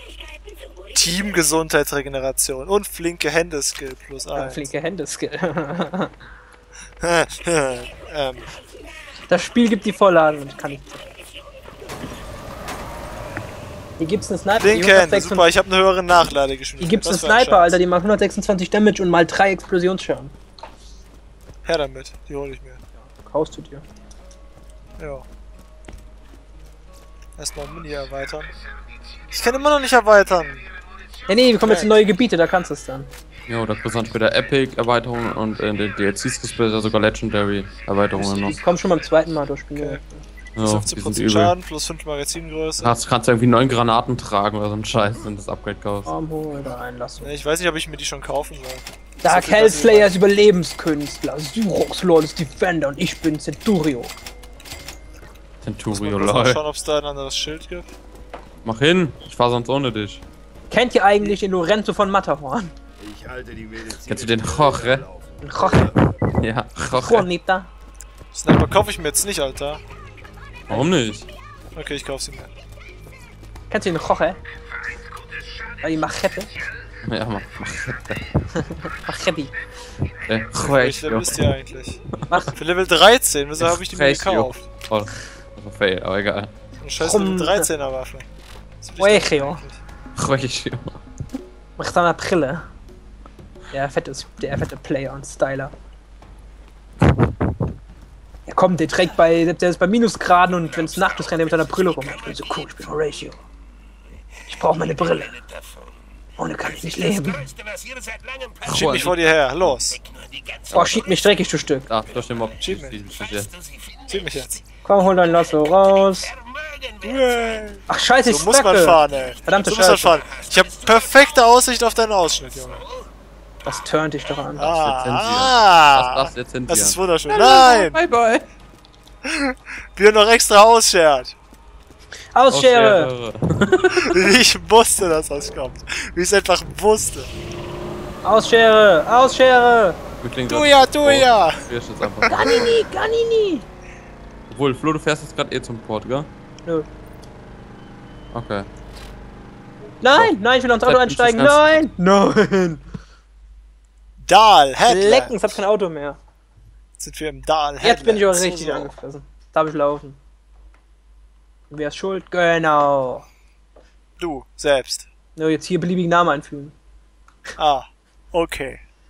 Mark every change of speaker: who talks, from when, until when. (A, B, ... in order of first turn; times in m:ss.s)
0:00.9-0:04.7 A
0:04.4-0:06.1 B
0:07.0-0:08.5 A
0:09.3-0:11.0 B
0:14.0-0:15.5 B
0:14.6-0:17.8 A
0:16.8-0:20.3 B
0:21.7-0:22.8 A
0:23.0-0:23.8 B
0:25.0-0:25.2 A
0:27.4-0:28.5 A
0:29.3-0:30.6 A
0:31.3-0:33.1 B
0:31.6-0:32.0 A
0:33.5-0:38.6 C
0:38.2-0:40.3 B
0:39.8-0:40.0 A
0:40.6-0:41.5 C
0:40.6-0:43.0 A
0:42.8-0:46.1 C
0:46.1-0:47.3 B
0:47.2-0:50.1 A
0:49.2-0:54.1 B
0:55.6-0:56.6 C
0:55.9-0:58.0 A
0:58.6-1:00.2 C
1:00.7-1:02.8 B
1:03.8-1:05.1 C
1:05.4-1:06.0 B
1:06.4-1:07.3 C
1:07.0-1:07.7 B
1:08.3-1:09.8 A
1:10.7-1:11.3 C
1:11.8-1:12.5 A
1:13.7-1:14.4 B
1:15.8-1:16.5 B
1:17.1-1:18.4 C
1:18.8-1:19.5 B
1:20.3-1:21.4 C
1:20.6-1:22.0 A
1:22.2-1:22.4 C
1:22.6-1:24.7 A
1:23.6-1:26.5 C
1:26.8-1:28.3 A
1:27.0-1:27.7 B
1:28.8-1:29.8 A
1:29.0-1:29.6 B
1:30.2-1:31.0 C
1:31.8-1:32.7 B
1:33.7-1:35.7 B
1:38.5-1:43.4 B
1:44.5-1:45.4 B
1:46.4-1:47.5 B
1:48.7-1:49.3 C
1:48.7-1:50.0 A
1:50.7-1:51.1 C
1:50.7-1:51.9 B
1:51.9-1:53.5 C
1:52.6-1:53.0 A
1:54.1-1:54.6 A
1:54.8-1:56.3 B
1:57.0-2:02.8 A
1:57.9-2:00.2 B
2:03.6-2:04.8 B
2:04.6-2:08.0 A
2:04.6-2:08.5 C
2:09.2-2:11.4 A
2:12.3-2:13.1 B
2:12.5-2:14.3 C
2:14.0-2:17.3 A
2:18.2-2:20.0 B
2:20.2-2:22.7 C
2:20.5-2:21.6 A
2:22.2-2:22.7 A
2:22.3-2:23.7 B
2:24.5-2:26.3 C
2:28.3-2:28.7 C
2:30.0-2:32.8 B
2:30.1-2:31.8 C
2:34.2-2:35.6 A
2:34.9-2:36.2 B
2:37.0-2:38.9 A
2:37.8-2:40.2 B
2:41.7-2:43.3 B
2:44.2-2:45.1 A
2:45.4-2:46.8 B
2:47.6-2:48.8 A